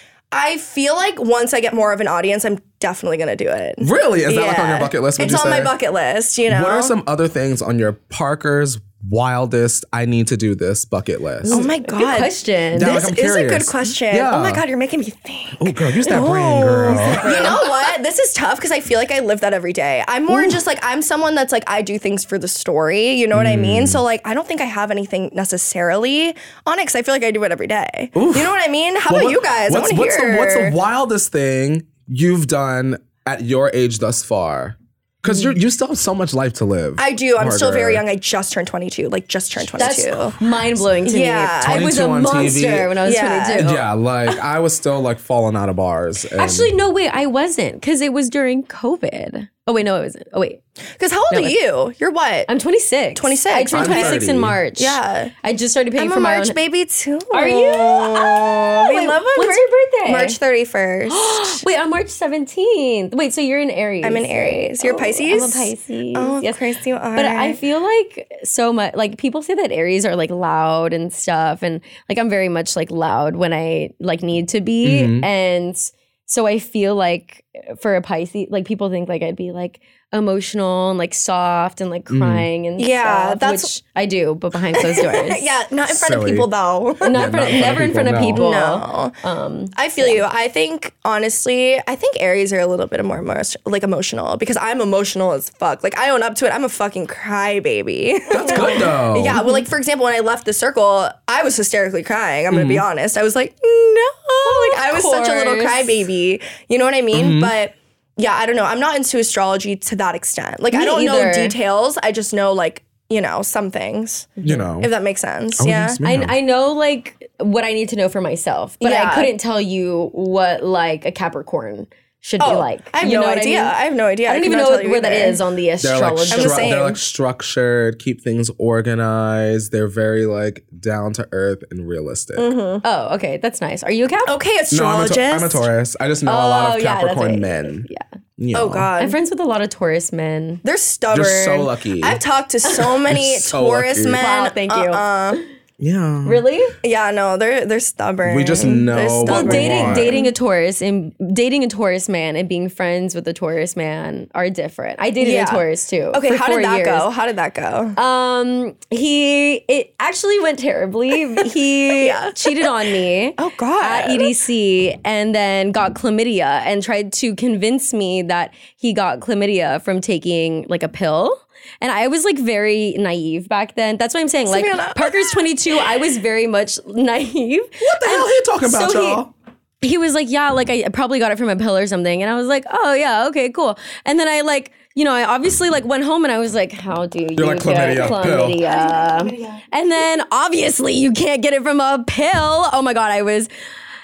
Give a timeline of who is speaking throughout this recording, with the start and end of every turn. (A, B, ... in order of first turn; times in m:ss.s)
0:00.3-0:06.9 A
0:03.8-0:05.7 B
0:06.5-0:11.7 B
0:11.4-0:13.0 C
0:11.5-0:30.8 A
0:12.7-0:14.6 B
0:15.6-0:17.6 B
0:16.8-0:17.6 C
0:20.3-0:20.6 B
0:23.3-0:24.0 B
0:28.2-0:28.6 B
0:29.1-0:38.0 B
0:37.0-0:40.4 A
0:39.8-0:43.8 C
0:41.1-0:41.9 A
0:41.6-0:43.0 B
0:43.0-0:43.8 A
0:43.6-0:46.7 B
0:46.4-0:50.6 C
0:51.0-0:52.5 A
0:51.3-0:51.6 C
0:52.5-0:56.6 C
0:53.2-0:54.2 A
0:53.7-0:54.6 B
0:54.8-0:55.3 A
0:56.0-1:01.6 A
0:57.3-1:00.4 C
1:01.1-1:06.6 C
1:04.0-1:07.6 A
1:07.2-1:25.5 C
1:14.8-1:15.3 B
1:22.1-1:22.5 B
1:22.8-1:23.7 A
1:24.8-1:27.2 A
1:25.9-1:26.5 B
1:27.0-1:28.5 B
1:27.0-1:30.2 C
1:28.3-1:29.2 A
1:29.8-1:56.0 A
1:38.3-1:39.4 B
1:38.5-1:38.9 C
1:42.5-1:42.8 B
1:44.4-1:45.9 C
1:47.1-1:47.6 B
1:50.7-1:51.6 C
1:54.4-1:54.9 B
1:55.6-1:56.4 B
1:56.0-2:03.7 C
1:58.8-1:59.3 A
2:02.4-2:05.4 A
2:04.3-2:06.8 C
2:05.8-2:12.5 B
2:06.3-2:07.0 A
2:12.4-2:12.8 A
2:12.8-2:14.3 C
2:14.3-2:15.6 A
2:14.7-2:18.9 B
2:16.3-2:18.0 C
2:18.5-2:19.2 A
2:19.0-2:20.6 C
2:20.6-2:25.4 A
2:21.1-2:22.2 B
2:23.1-2:24.3 B
2:24.2-2:25.4 C
2:25.8-2:26.4 B
2:26.2-2:26.8 C
2:26.8-2:30.3 A
2:28.2-2:30.2 B
2:29.2-2:37.1 C
2:35.2-2:38.0 A
2:38.0-2:59.2 C
2:41.9-2:42.7 A
2:43.4-2:44.3 A
2:54.5-2:55.4 A
2:57.8-2:59.3 B
2:59.8-3:13.5 C
3:07.4-3:08.6 B
3:07.9-3:09.6 A